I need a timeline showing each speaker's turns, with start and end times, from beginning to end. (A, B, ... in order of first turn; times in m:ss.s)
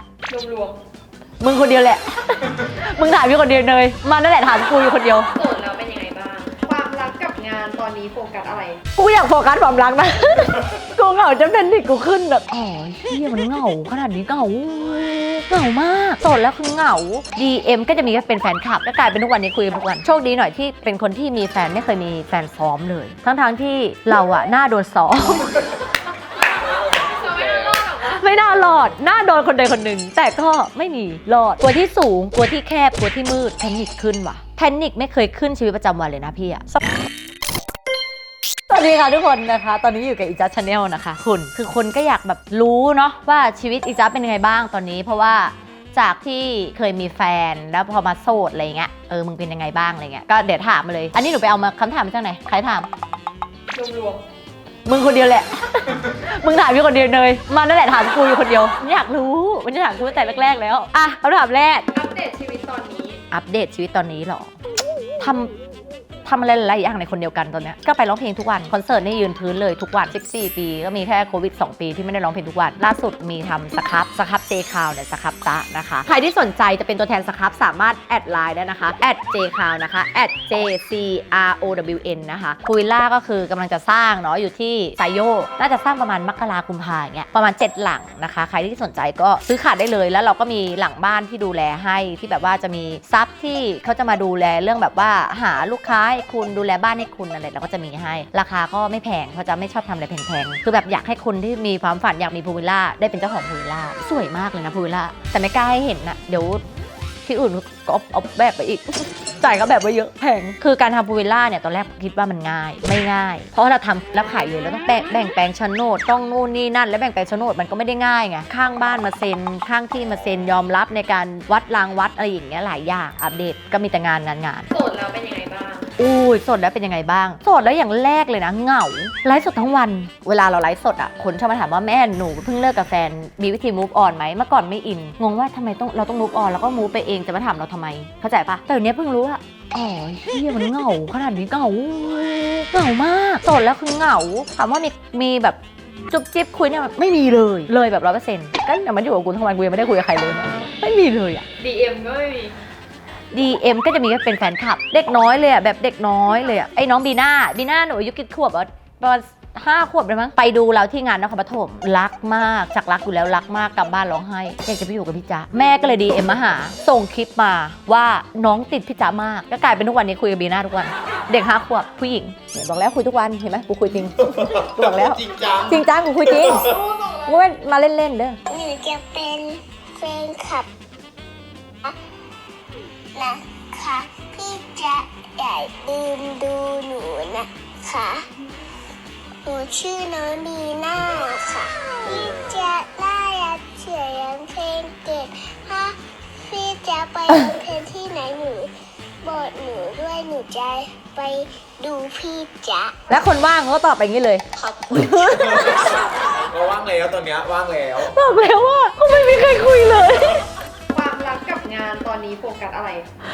0:00.3-0:00.8 A
0:01.4-0:05.3 B
0:05.3-0:08.8 A
0:09.0-0:25.6 B
0:26.4-0:28.2 A
0:26.7-0:27.8 C
0:28.0-0:36.8 B
0:38.7-0:52.9 B
0:53.7-0:54.2 A
0:54.8-1:01.9 B
0:59.9-1:00.5 A
1:01.9-1:03.2 A
1:03.3-1:04.5 B
1:05.2-1:05.5 B
1:06.2-1:46.6 B
1:47.2-2:04.7 B
2:04.7-2:05.9 A
2:06.0-2:31.4 B
2:31.6-2:32.6 A
2:33.3-2:58.4 B
2:58.5-3:00.7 D
3:03.1-3:08.3 D
3:09.4-3:18.7 D
3:19.2-3:23.2 D
3:23.1-3:25.7 B
3:24.8-3:26.0 D
3:25.3-3:25.8 C
3:26.5-3:28.1 C
3:28.0-3:30.5 B
3:30.9-3:33.0 A